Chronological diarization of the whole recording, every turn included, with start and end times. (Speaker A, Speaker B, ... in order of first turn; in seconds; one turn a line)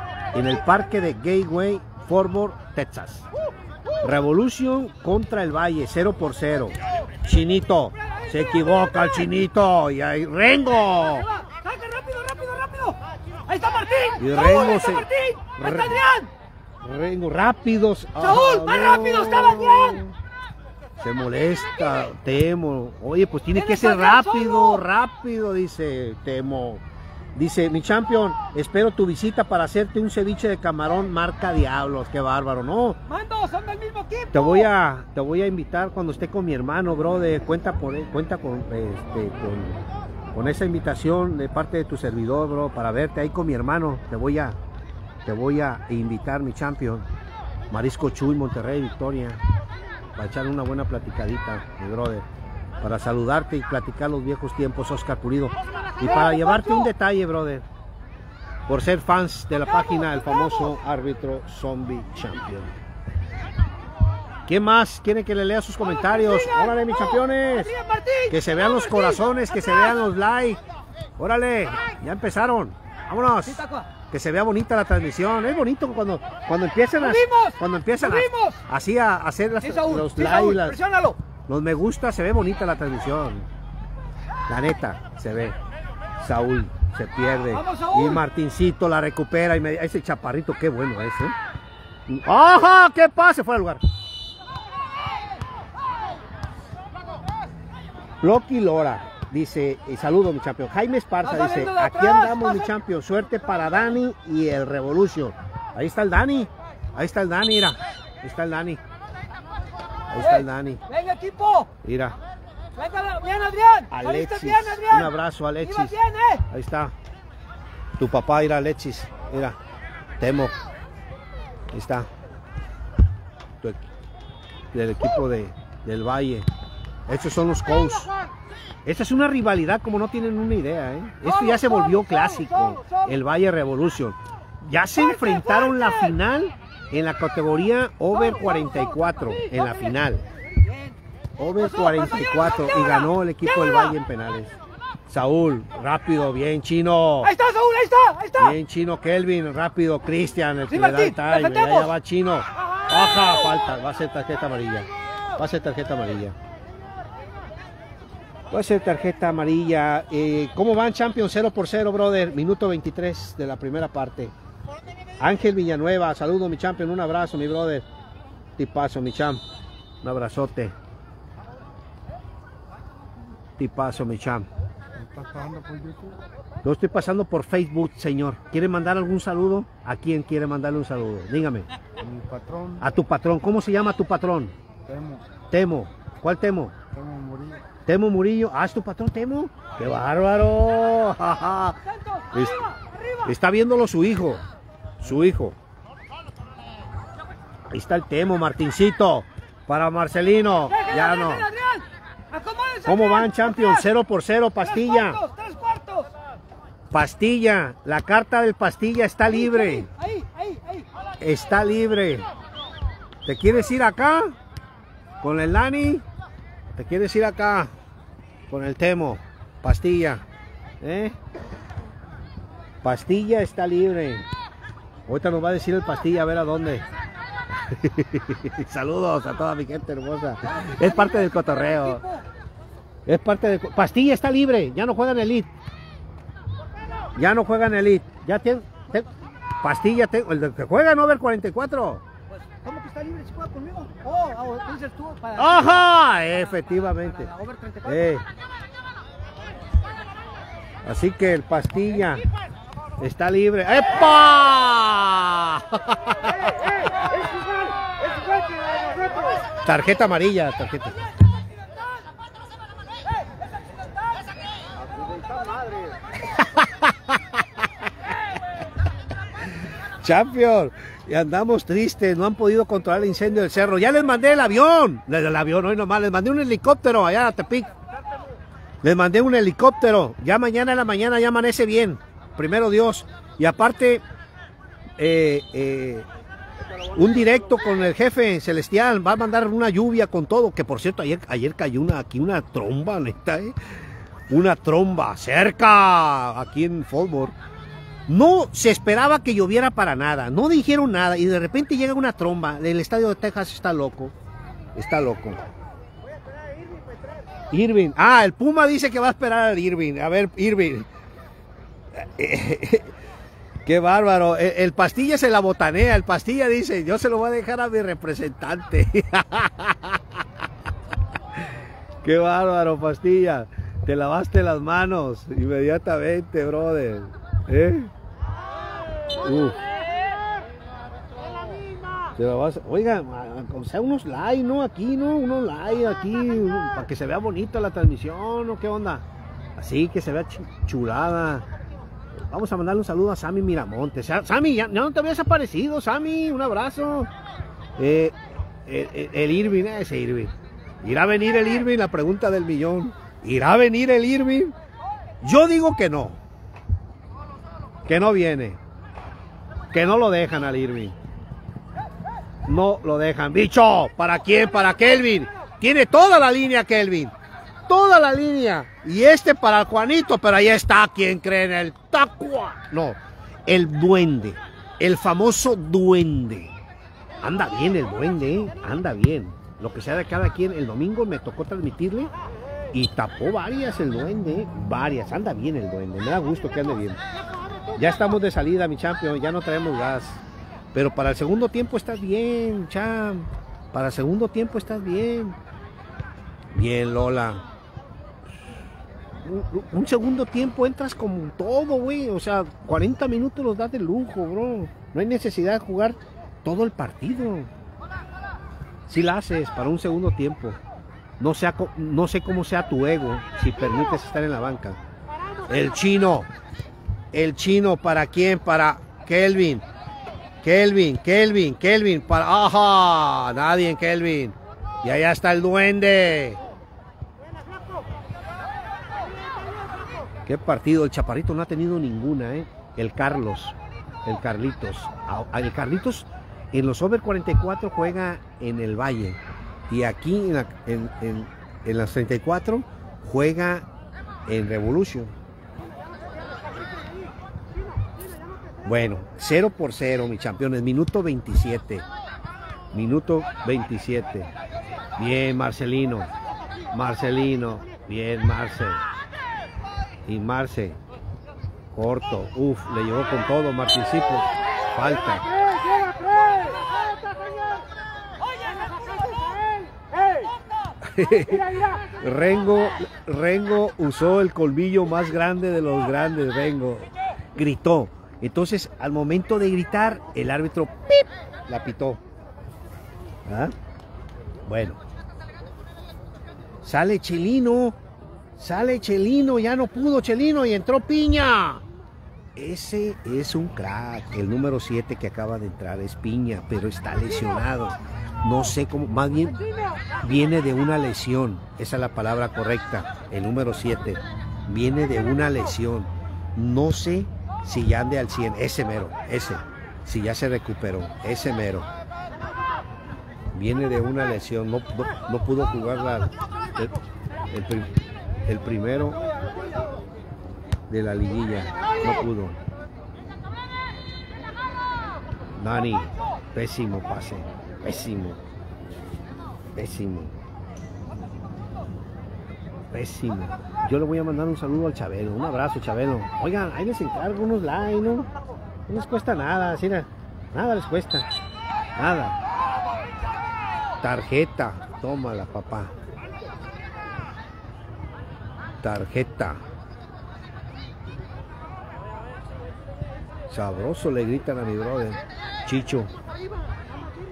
Speaker A: 0.3-3.3
Speaker A: 4.0-11.3
Speaker B: 11.1-16.3
Speaker A: 14.2-16.0
Speaker A: 16.8-20.1
Speaker B: 18.2-20.0
Speaker A: 21.0-26.8
Speaker B: 23.5-24.8
Speaker A: 27.4-33.0
Speaker B: 33.1-34.7
Speaker A: 34.3-39.8
Speaker A: 40.3-44.6
Speaker A: 45.2-47.1
Speaker A: 47.7-49.4
Speaker A: 50.2-52.2
Speaker A: 52.8-57.7
Speaker A: 58.7-62.8
Speaker A: 64.5-67.7
Speaker B: 65.8-69.9
Speaker A: 68.3-70.6
Speaker A: 71.2-80.8
Speaker B: 73.5-73.9
Speaker B: 77.0-78.6
Speaker B: 79.6-81.2
Speaker A: 81.5-83.5
Speaker A: 84.5-85.6
Speaker A: 86.2-91.4
Speaker B: 87.5-88.2
Speaker A: 92.1-93.8
Speaker A: 98.2-108.8
Speaker B: 101.2-102.7
Speaker A: 110.1-110.8
Speaker B: 110.2-111.7
Speaker A: 111.8-112.2
Speaker B: 112.8-116.5
Speaker A: 113.9-116.0
Speaker A: 116.5-116.9
Speaker A: 118.0-119.6
Speaker A: 120.2-120.5
Speaker A: 121.7-122.1
Speaker A: 124.7-126.5
Speaker A: 127.1-128.1
Speaker A: 128.8-140.2
Speaker B: 131.2-133.1
Speaker B: 134.9-136.2
Speaker B: 138.1-139.9
Speaker B: 140.6-141.0
Speaker A: 141.4-144.6
Speaker B: 141.6-143.9
Speaker A: 145.1-147.3
Speaker B: 147.2-148.6
Speaker A: 148.4-156.4
Speaker B: 150.7-151.9
Speaker B: 152.6-153.6
Speaker A: 158.5-164.3
Speaker A: 165.2-167.8
Speaker A: 168.6-169.4
Speaker A: 170.0-170.8
Speaker A: 173.6-174.5
Speaker C: 175.0-176.2
Speaker A: 176.6-181.7
Speaker C: 182.1-182.8
Speaker A: 182.8-184.5
Speaker C: 184.9-185.2
Speaker A: 185.5-186.8
Speaker C: 187.0-187.6
Speaker A: 187.8-191.8
Speaker B: 191.8-193.3
Speaker A: 192.3-192.7
Speaker A: 193.2-194.4
Speaker A: 195.0-195.6
Speaker A: 197.7-201.5
Speaker B: 200.7-203.9
Speaker A: 202.8-205.2
Speaker B: 204.6-206.1
Speaker A: 206.9-209.9
Speaker B: 209.3-210.9
Speaker A: 211.2-212.3
Speaker A: 213.2-214.3
Speaker A: 215.2-216.1
Speaker A: 216.7-217.7
Speaker A: 218.5-220.2
Speaker A: 220.8-221.2
Speaker A: 222.8-224.3
Speaker A: 225.1-226.8
Speaker A: 227.5-232.0
Speaker B: 230.4-232.2
Speaker A: 233.1-235.5
Speaker A: 237.2-239.1
Speaker A: 239.6-242.0
Speaker B: 242.3-245.9
Speaker A: 245.4-247.3
Speaker B: 246.8-248.2
Speaker A: 247.8-248.2
Speaker A: 250.8-252.2
Speaker A: 253.0-256.3
Speaker A: 259.6-261.0
Speaker A: 266.3-267.2
Speaker A: 270.0-277.7
Speaker A: 278.8-284.0
Speaker A: 285.0-286.1
Speaker A: 286.9-293.6
Speaker A: 294.3-297.4
Speaker A: 298.1-304.1
Speaker A: 304.8-305.4
Speaker A: 307.5-310.9
Speaker A: 311.9-312.9
Speaker A: 313.7-320.0
Speaker A: 322.0-327.9
Speaker A: 329.2-329.6
Speaker A: 332.2-339.0
Speaker A: 339.6-341.5
Speaker A: 342.3-347.1
Speaker A: 347.8-354.6
Speaker A: 355.2-356.2
Speaker A: 357.9-358.6
Speaker A: 359.7-361.0
Speaker A: 362.5-367.1
Speaker A: 367.7-376.6
Speaker A: 377.2-382.1
Speaker A: 382.7-387.0
Speaker A: 387.8-390.2
Speaker A: 390.7-395.4
Speaker A: 396.5-397.4
Speaker A: 399.2-407.5
Speaker A: 408.9-410.6
Speaker A: 411.2-414.8
Speaker A: 415.5-416.3
Speaker A: 417.1-419.6
Speaker A: 420.4-426.4
Speaker A: 430.2-443.7
Speaker A: 444.3-445.1
Speaker A: 448.6-451.9
Speaker A: 452.7-454.3
Speaker A: 455.0-456.1
Speaker A: 456.7-458.8
Speaker A: 460.1-460.8
Speaker A: 461.7-465.3
Speaker B: 465.5-466.6
Speaker A: 470.8-482.0
Speaker A: 483.3-483.5
Speaker A: 484.5-484.8
Speaker A: 486.6-487.8
Speaker A: 488.4-491.6
Speaker A: 492.4-499.4
Speaker A: 500.0-511.7
Speaker A: 513.3-516.8
Speaker A: 517.3-517.7
Speaker A: 518.3-519.0
Speaker A: 520.7-522.4
Speaker A: 525.4-528.2
Speaker A: 529.6-530.2
Speaker A: 532.7-538.1
Speaker A: 538.7-541.1
Speaker A: 541.8-542.2
Speaker A: 543.8-545.7
Speaker A: 548.6-549.4
Speaker A: 553.3-555.9